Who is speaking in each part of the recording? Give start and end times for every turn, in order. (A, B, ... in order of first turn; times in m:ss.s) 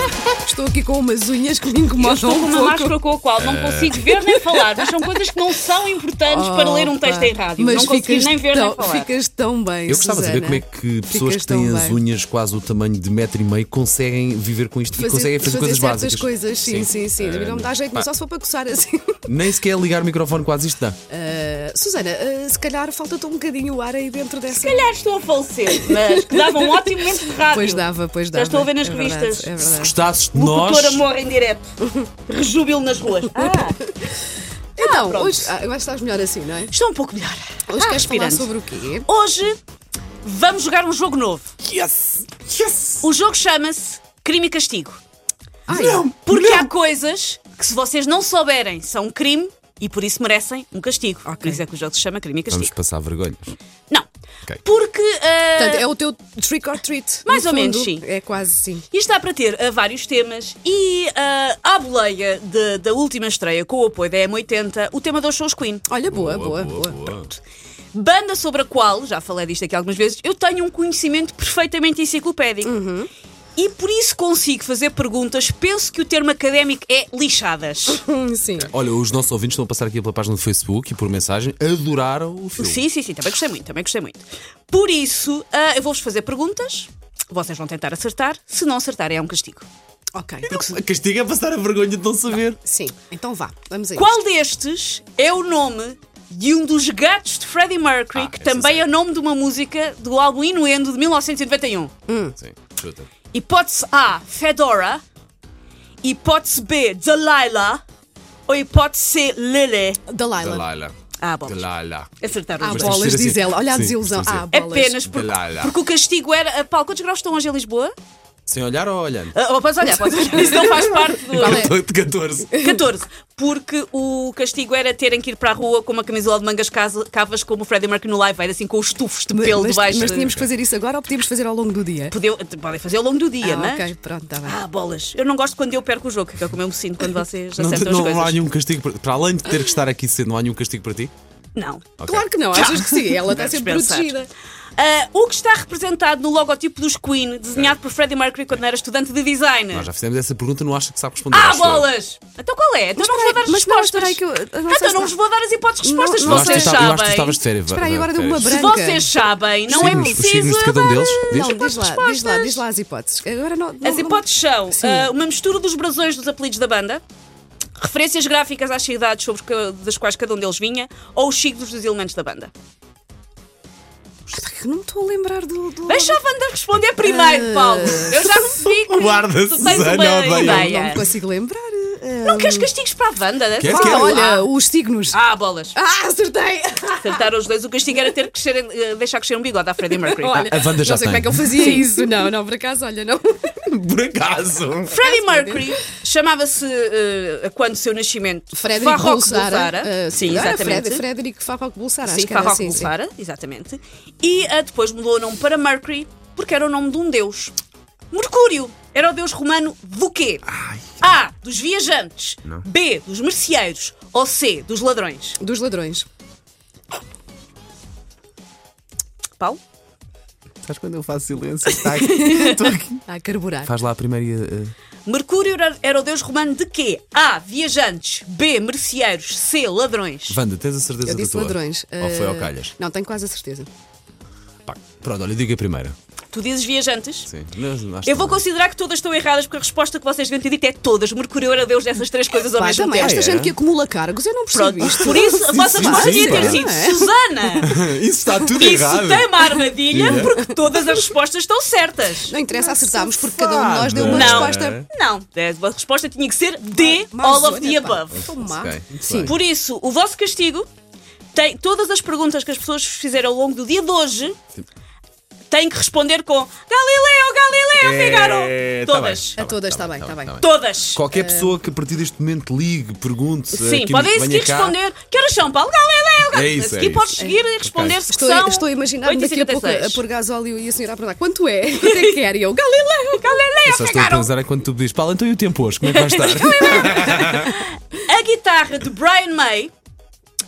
0:00.4-0:02.9 A
0:02.0-0:09.1 B
0:03.4-0:04.1 C
0:04.1-0:05.2 A
0:06.2-0:12.0 A
0:09.9-0:18.1 C
0:14.9-0:19.2 A
0:19.3-0:21.0 C
0:21.1-0:24.9 A
0:24.5-0:29.6 B
0:25.7-0:30.0 A
0:29.6-0:31.0 C
0:30.3-0:31.7 B
0:31.8-0:32.1 A
0:32.3-0:33.8 B
0:34.8-0:35.5 B
0:34.8-0:36.7 A
0:36.7-0:38.5 B
0:37.7-0:39.1 A
0:39.0-0:39.6 B
0:40.2-0:41.5 B
0:41.6-0:43.1 C
0:43.0-0:45.0 B
0:45.7-0:46.1 A
0:45.7-0:46.7 C
0:46.0-0:52.8 B
0:51.2-0:51.6 A
0:52.5-0:53.6 C
0:54.6-0:55.8 B
0:55.6-0:58.8 A
0:57.2-0:58.0 B
0:58.9-1:05.9 B
1:05.8-1:07.1 A
1:06.1-1:07.3 C
1:07.9-1:12.8 B
1:12.6-1:13.1 A
1:13.6-1:18.0 B
1:17.9-1:18.7 A
1:18.6-1:22.8 C
1:22.6-1:29.6 B
1:30.1-1:30.6 A
1:30.5-1:32.6 C
1:30.5-1:30.8 B
1:32.6-1:34.2 A
1:33.9-1:41.9 B
1:38.1-1:38.9 C
1:42.1-1:42.4 A
1:42.4-1:43.1 C
1:43.3-1:45.0 B
1:46.0-1:47.8 B
1:48.5-1:50.0 B
1:50.1-1:50.7 A
1:50.4-1:50.9 C
1:51.2-1:51.7 B
1:51.4-1:52.1 C
1:52.2-1:53.0 B
1:52.6-1:55.0 A
1:52.7-1:54.4 C
1:54.4-1:57.9 B
1:55.0-1:55.7 C
1:58.5-1:59.4 C
1:59.3-2:01.7 B
2:00.2-2:01.7 A
2:01.1-2:02.5 C
2:02.5-2:02.8 A
2:02.5-2:10.4 B
2:09.3-2:12.1 A
2:09.9-2:10.4 C
2:12.1-2:13.9 B
2:13.4-2:14.6 A
2:14.4-2:18.4 B
2:17.6-2:21.1 C
2:21.6-2:24.2 B
2:22.0-2:22.3 C
2:22.0-2:24.3 A
2:24.8-2:29.9 B
2:29.7-2:31.9 C
2:31.3-2:37.4 B
2:33.0-2:35.1 A
2:35.8-2:36.9 A
2:36.2-2:38.5 C
2:37.6-2:39.1 A
2:38.4-2:42.6 B
2:39.7-2:40.2 A
2:39.7-2:41.5 C
2:41.3-2:45.1 A
2:43.8-2:47.0 B
2:47.8-2:52.5 B
2:54.3-2:56.2 A
2:55.8-3:01.1 B
2:57.0-2:58.8 A
2:58.9-3:01.0 C
2:59.6-3:02.7 A
3:02.2-3:04.5 B
3:03.6-3:04.3 C
3:03.6-3:05.2 A
3:05.1-3:05.8 B
3:05.7-3:07.3 A
3:07.0-3:10.5 B
3:09.9-3:13.6 A
3:10.3-3:11.6 C
3:11.5-3:12.1 B
3:13.6-3:15.0 C
3:14.9-3:21.0 B
3:15.0-3:15.8 A
3:18.5-3:22.9 A
3:22.0-3:27.5 B
3:28.1-3:30.4 B
3:30.5-3:30.9 C
3:31.0-3:35.4 B
3:35.4-3:36.0 A
3:40.6-3:43.0 C
3:41.7-3:43.8 A
3:42.1-3:42.7 B
3:43.6-3:44.7 C
3:45.1-3:50.4 B
3:50.3-3:52.7 C
3:51.0-3:53.7 A
3:54.6-3:55.9 C
3:56.3-3:57.3 B
3:57.2-3:58.4 C
3:58.0-4:03.2 B
4:02.5-4:07.1 A
4:02.9-4:03.5 C
4:04.5-4:07.8 B
4:05.7-4:06.6 C
4:07.6-4:10.4 C
4:08.5-4:12.4 B
4:10.1-4:10.4 A
4:12.2-4:14.8 A
4:12.7-4:14.9 C
4:14.0-4:18.2 B
4:16.7-4:19.3 A
4:18.2-4:19.4 C
4:19.2-4:20.7 B
4:21.3-4:24.4 B
4:25.5-4:29.4 B
4:27.8-4:34.7 C
4:29.3-4:30.4 A
4:30.4-4:31.0 B
4:31.1-4:31.6 A
4:33.5-4:40.0 B
4:36.3-4:37.1 C
4:37.6-4:38.0 C
4:38.1-4:43.4 A
4:41.7-4:42.1 B
4:43.1-4:44.3 B
4:43.6-4:47.6 C
4:45.8-4:49.7 B